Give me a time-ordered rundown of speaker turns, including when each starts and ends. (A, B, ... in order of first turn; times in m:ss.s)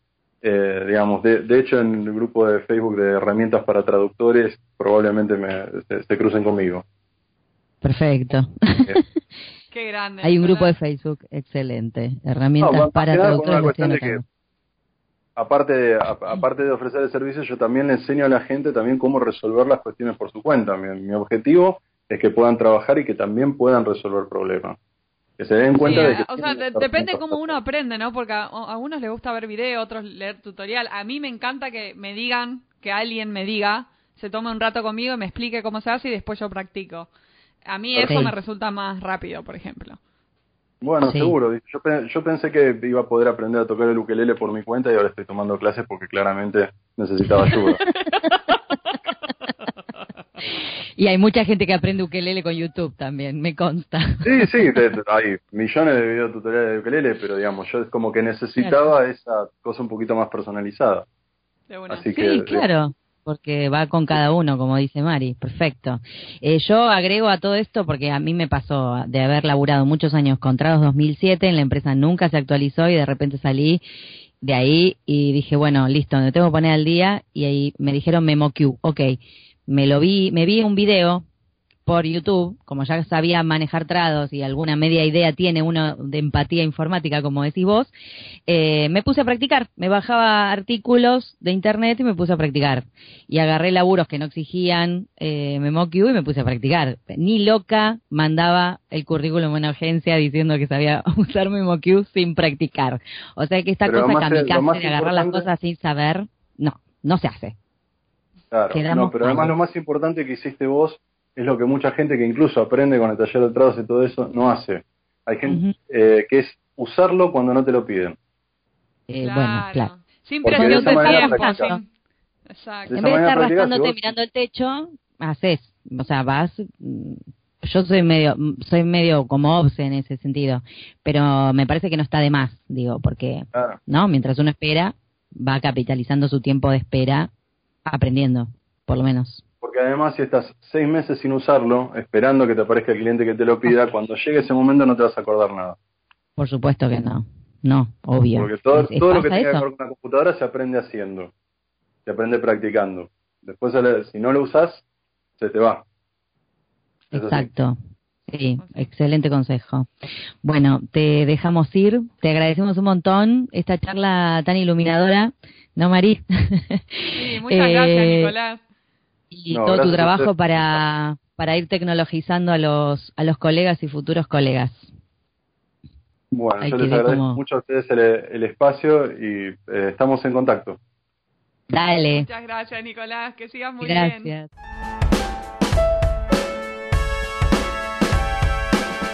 0:00.4-0:06.8 A
0:07.8-0:09.1 B
0:09.7-0:10.8 C
0:10.2-0:14.2 B
0:12.6-0:14.2 A
0:15.4-0:24.8 A
0:25.4-0:27.6 A
0:25.8-0:37.1 C
0:37.7-0:40.0 C
0:37.9-0:38.3 A
0:38.0-0:38.3 B
0:40.8-0:47.8 A
0:41.0-0:41.4 B
0:51.0-0:54.6 B
0:54.2-1:01.1 A
0:58.6-0:58.9 B
1:01.7-1:02.1 C
1:01.9-1:02.6 A
1:02.2-1:13.8 B
1:14.4-1:21.2 B
1:21.9-1:27.9 B
1:28.5-1:47.5 B
1:43.9-1:45.5 A
1:48.5-1:58.2 A
1:48.7-1:49.5 B
1:55.5-1:55.8 B
1:59.1-1:59.9 B
1:59.2-2:01.9 C
2:00.4-2:01.7 A
2:00.4-2:01.8 B
2:02.5-2:02.9 C
2:02.9-2:04.1 A
2:03.0-2:17.3 B
2:17.9-2:19.4 B
2:19.6-2:25.8 A
2:26.4-2:29.6 B
2:28.4-2:31.3 A
2:32.1-2:34.8 A
2:35.4-2:35.8 A
2:37.1-2:37.8 B
2:37.1-2:37.5 A
2:38.3-2:39.9 B
2:38.6-2:38.9 C
2:40.4-2:48.3 B
2:47.1-2:48.6 C
2:49.3-2:54.9 B
2:49.5-2:50.8 A
2:56.3-3:00.8 A
2:56.6-2:57.4 B
3:01.7-3:02.3 B
3:02.2-3:04.3 C
3:03.8-3:04.5 B